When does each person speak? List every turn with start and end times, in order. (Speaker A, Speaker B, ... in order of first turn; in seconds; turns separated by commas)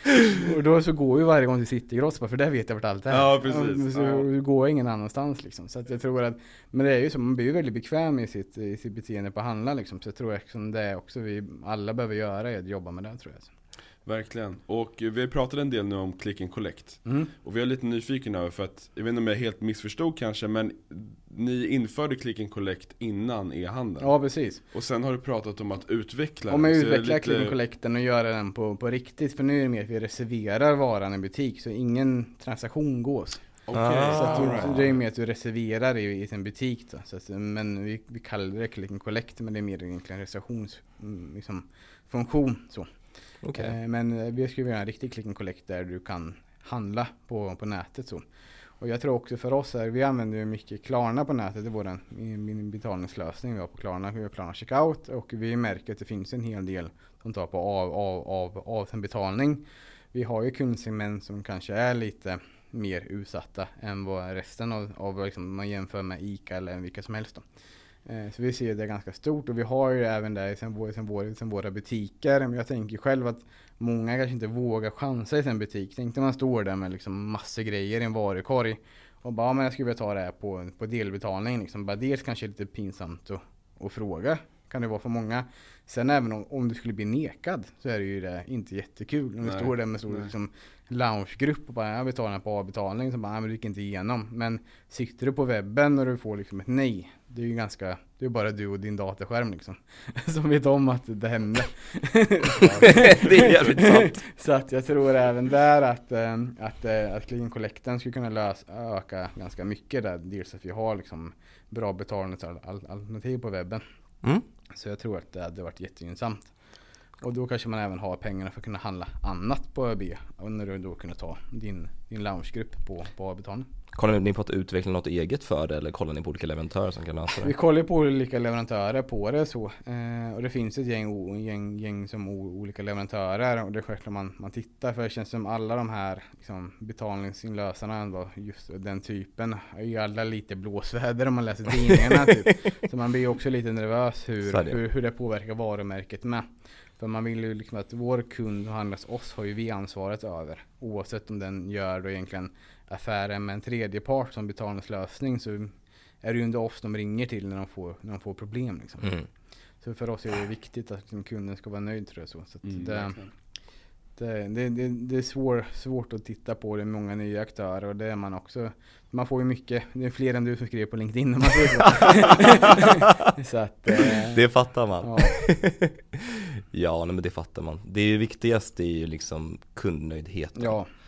Speaker A: 0.3-13.5, Speaker B: 3.1-4.3, Speaker B: 14.1-24.1, Speaker A: 17.0-17.3, Speaker A: 24.0-24.6, Speaker B: 24.7-27.5, Speaker A: 26.5-33.4, Speaker B: 33.7-34.9, Speaker C: 33.7-34.7, Speaker A: 34.1-42.9, Speaker C: 43.4-43.7, Speaker A: 43.5-48.2, Speaker A: 48.8-67.4, Speaker A: 68.0-113.8, Speaker B: 89.4-89.7, Speaker B: 102.6-103.7, Speaker C: 102.8-104.2, Speaker A: 114.7-116.5, Speaker A: 117.2-123.7, Speaker C: 123.9-127.5, Speaker A: 127.4-146.4, Speaker C: 144.5-144.8, Speaker A: 147.0-159.2, Speaker C: 159.0-159.3, Speaker A: 159.8-163.2, Speaker B: 162.6-163.3, Speaker A: 164.2-174.4, Speaker C: 172.8-173.3, Speaker C: 174.0-180.8, Speaker A: 175.0-175.4, Speaker A: 180.6-180.9